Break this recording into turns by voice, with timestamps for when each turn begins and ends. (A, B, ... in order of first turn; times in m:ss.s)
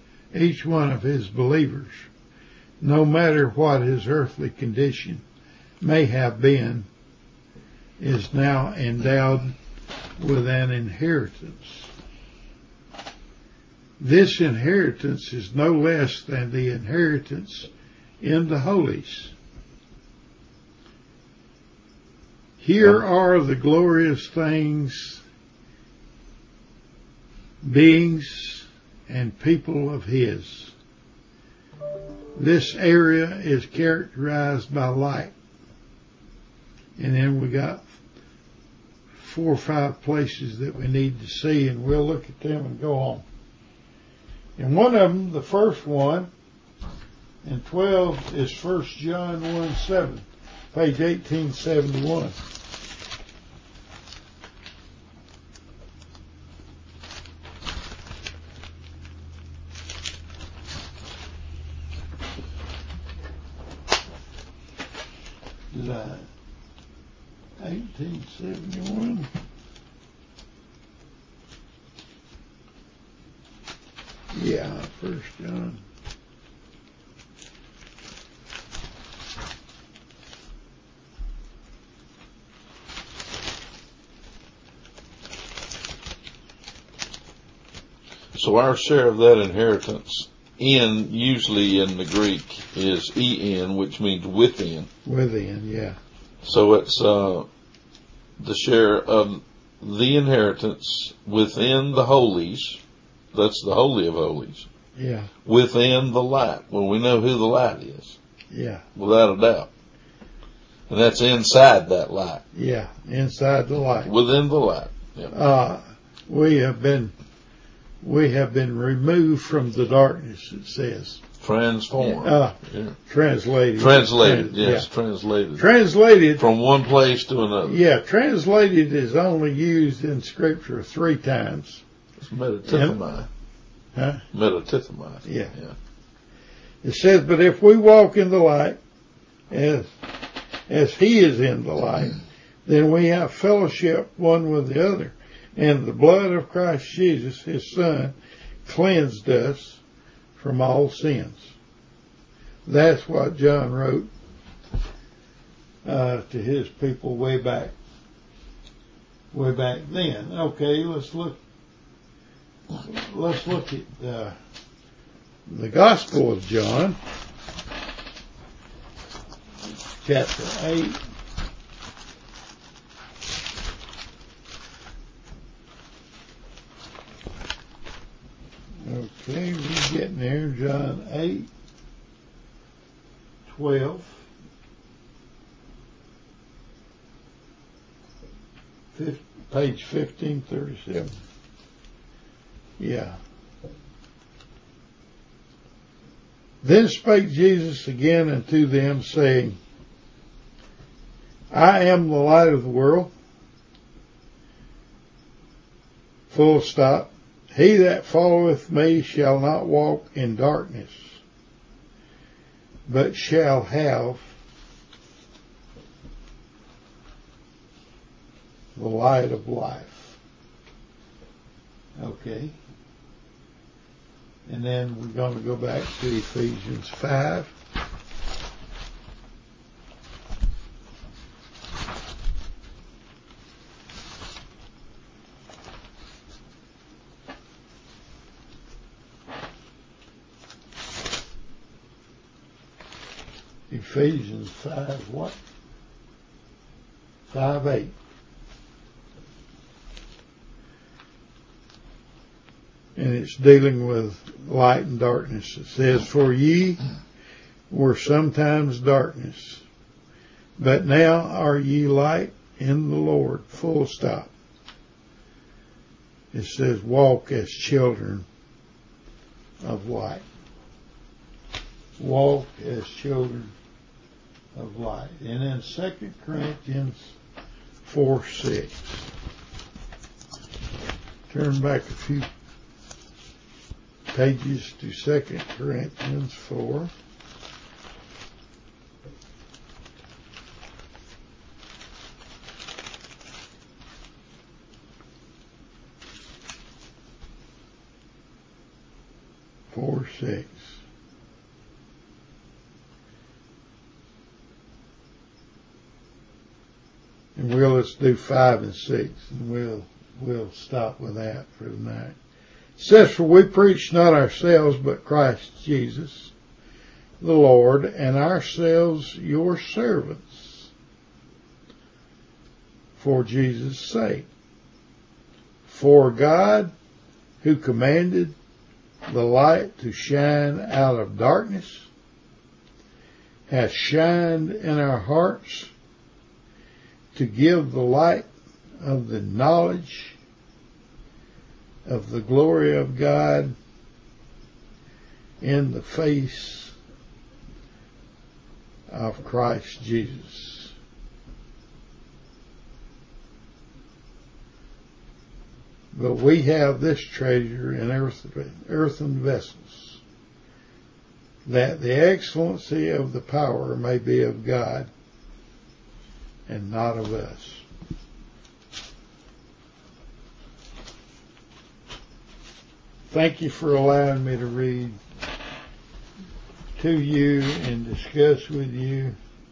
0:00.3-0:01.9 A
0:02.8-0:05.2 A
0:05.8-0:06.9 A
0:08.0-0:09.5 A
0:10.2-0:11.9 A
0:14.0-0:17.7 A
0:18.2-0:19.3 A
0:22.6-0:25.2 A
0:27.6-0:30.7 A
0:32.4-0:35.3 A
0:37.0-0:37.9 A
0:39.2-0:43.2 A
0:44.6-0:46.3 A
0:47.4-0:52.3 A
1:05.7-1:06.3 A
1:07.6-1:09.3 A
1:14.3-1:15.8 A
1:28.3-1:34.9 B
1:35.0-1:36.0 A
1:36.4-1:37.5 B
1:38.4-1:42.8 B
1:43.3-1:44.6 B
1:45.0-1:45.3 A
1:45.4-1:48.2 B
1:48.5-1:48.8 A
1:49.0-1:49.7 B
1:50.9-1:52.4 B
1:52.5-1:54.1 A
1:54.0-1:55.3 B
1:55.3-1:57.1 A
1:58.0-2:01.2 A
2:01.4-2:02.9 B
2:02.2-2:04.9 A
2:03.8-2:05.7 B
2:05.6-2:06.4 A
2:06.4-2:07.8 B
2:07.6-2:11.8 A
2:12.2-2:13.3 B
2:12.7-2:13.0 A
2:13.9-2:14.2 A
2:14.3-2:15.7 B
2:15.2-2:15.5 A
2:16.8-2:18.8 A
2:19.5-2:19.9 A
2:20.7-2:28.1 A
2:28.6-2:29.8 A
2:30.4-2:31.5 A
2:32.6-2:34.1 A
2:35.8-2:37.7 A
2:39.3-2:41.4 A
2:42.8-2:44.3 A
2:45.5-2:47.0 A
2:50.0-2:51.0 A
2:58.8-3:01.5 A
3:03.5-3:04.2 A
3:08.9-3:11.1 A
3:12.8-3:13.2 A
3:16.6-3:19.6 A
3:21.5-3:23.1 A
3:26.3-3:31.2 A
3:32.9-3:34.3 A
3:38.8-3:40.2 A
3:42.0-3:42.5 A
3:44.5-3:47.5 A
4:03.7-4:05.4 A
4:07.3-4:07.9 A
4:13.0-4:16.8 A
4:17.7-4:19.6 A
4:20.6-4:24.3 A
4:26.3-4:28.2 A
4:29.6-4:30.2 A
4:32.0-4:33.5 A
4:34.6-4:37.1 A
4:37.8-4:39.0 A
4:41.3-4:42.3 A
4:44.1-4:46.9 A
4:59.7-5:00.7 A
5:07.4-5:12.1 A
5:12.8-5:16.3 A
5:17.2-5:20.7 A
5:23.0-5:24.3 A
5:25.6-5:26.7 A
5:27.4-5:28.3 A
5:29.1-5:31.9 A
5:33.5-5:35.7 A
5:37.1-5:38.3 A
5:38.8-5:40.2 A
5:41.8-5:43.5 A
5:45.4-5:46.7 A
5:48.9-5:50.7 A
5:55.9-6:00.0 A
6:01.4-6:04.9 A
6:06.5-6:07.6 A
6:13.1-6:15.0 A
6:16.8-6:19.2 A